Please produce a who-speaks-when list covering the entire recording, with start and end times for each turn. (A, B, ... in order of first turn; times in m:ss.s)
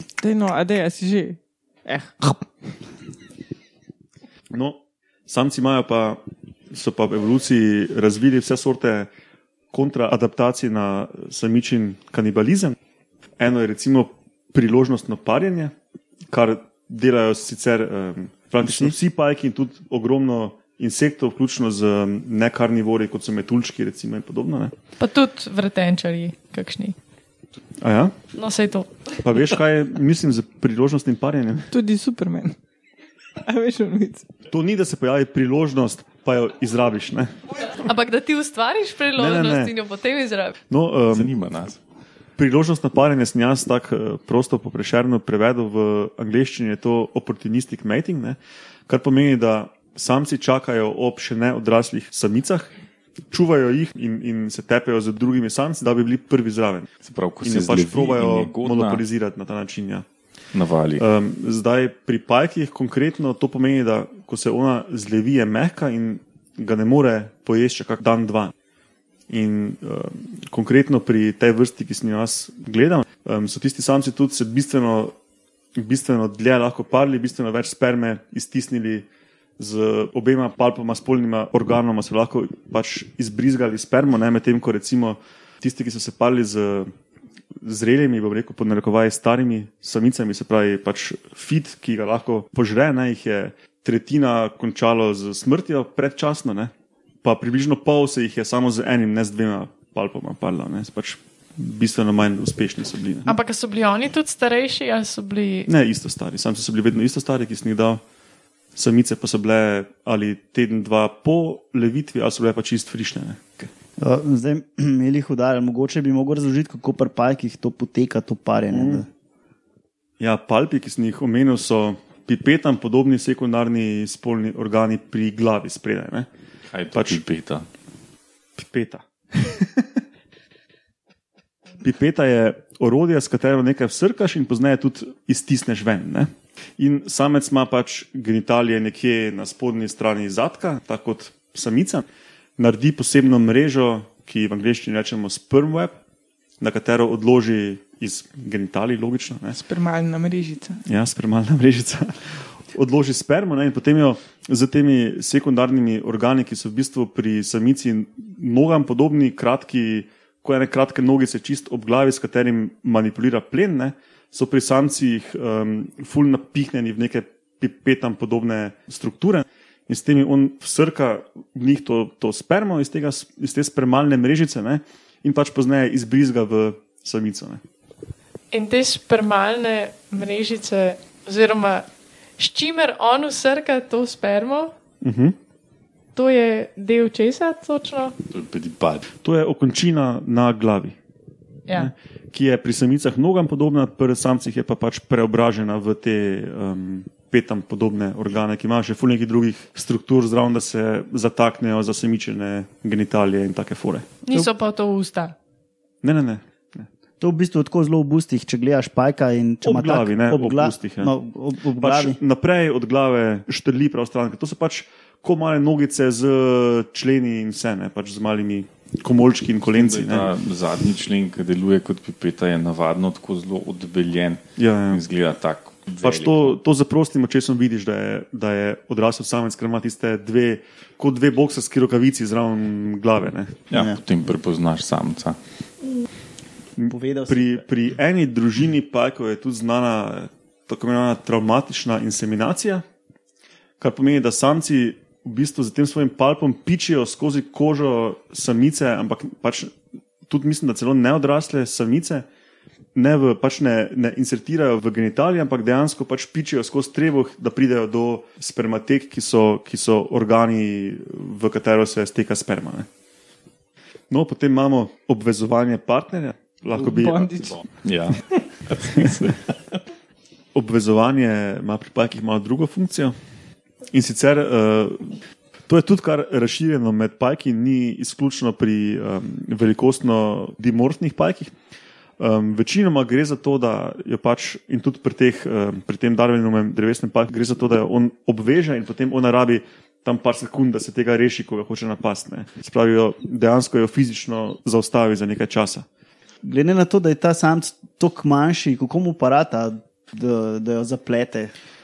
0:00.2-0:02.5 A
0:04.5-0:06.2 B
0:06.7-0:09.1 B
0:09.7-0:12.8 B
0:13.4-0:15.7 B
0:16.3-0:24.7 B
0:18.6-0:18.9 C
0:25.0-0:26.9 D
0:27.8-0:28.1 B
0:28.4-0:28.9 D
0:29.2-0:31.7 B
0:31.7-0:32.6 A
0:33.4-0:34.3 A
0:34.5-0:37.7 B
0:37.8-0:40.6 D
0:39.2-0:39.7 B
0:40.7-0:41.3 B
0:41.1-0:41.8 E
0:42.4-0:52.7 B
0:53.3-0:56.9 B
0:57.0-0:59.0 E
0:57.4-1:00.0 B
1:00.5-1:01.0 E
1:01.0-1:08.5 B
1:09.3-1:15.1 B
1:15.8-1:19.0 B
1:19.6-1:26.9 B
1:27.6-1:36.7 B
1:37.2-1:43.3 B
1:43.2-1:45.7 D
1:45.7-1:48.0 B
1:48.8-1:53.7 B
1:54.0-1:59.1 C
1:58.7-1:59.0 B
2:00.2-2:06.3 B
2:06.7-2:07.7 E
2:06.9-2:07.2 B
2:08.6-2:10.0 B
2:11.8-2:22.0 B
2:22.6-2:26.0 B
2:26.6-2:29.6 B
2:29.5-2:30.8 A
2:30.8-2:57.6 B
2:58.5-3:01.8 D
3:02.4-3:04.7 D
3:05.0-3:05.3 B
3:06.1-3:08.2 D
3:08.3-3:09.1 E
3:09.2-3:11.0 B
3:11.7-3:24.1 B
3:24.2-3:25.3 D
3:26.0-3:26.9 B
3:27.2-3:32.2 C
3:29.6-3:31.1 B
3:31.8-3:40.3 B
3:39.7-3:46.6 E
3:44.6-3:45.0 B
3:46.0-3:53.7 B
3:53.7-3:55.4 E
3:53.7-3:54.0 C
3:56.8-4:02.8 B
3:56.9-3:57.6 C
4:03.8-4:09.7 B
4:10.3-4:12.2 B
4:12.9-4:22.9 B
4:24.1-4:27.5 B
4:26.8-4:27.6 A
4:27.5-4:29.5 E
4:28.8-4:29.3 B
4:30.5-4:33.1 B
4:33.9-4:41.5 B
4:42.2-4:55.8 B
4:56.4-5:01.5 C